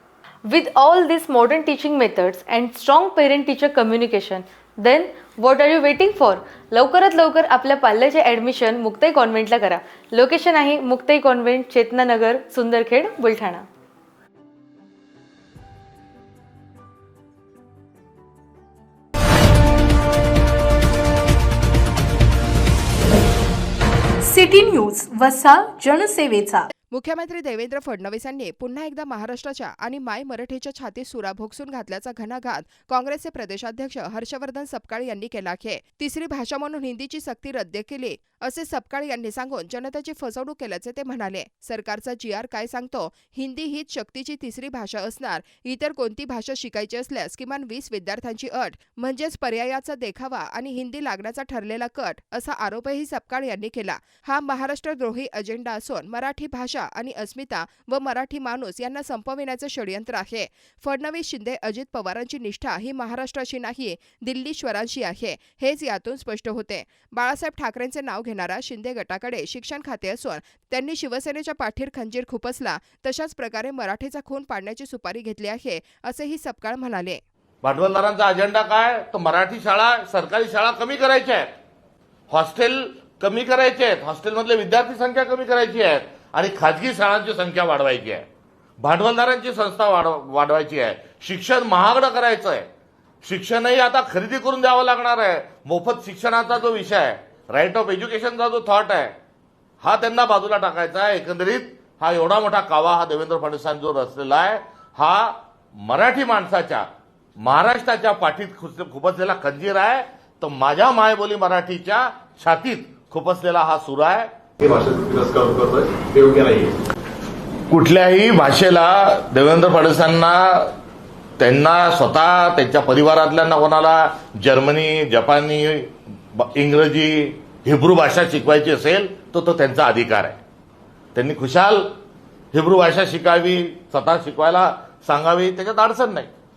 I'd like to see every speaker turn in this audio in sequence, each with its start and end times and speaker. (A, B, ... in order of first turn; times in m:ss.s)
0:00.4-0:13.6 A
0:24.2-0:26.7 B
0:26.9-1:17.2 C
1:17.6-1:21.5 D
1:22.3-1:28.2 D
1:28.8-1:32.7 D
1:33.2-1:39.1 D
1:39.8-1:46.9 D
1:47.4-1:54.3 D
1:54.6-1:56.8 E
1:57.7-2:00.7 D
2:01.4-2:10.4 D
2:11.1-2:11.9 D
2:12.5-2:16.3 D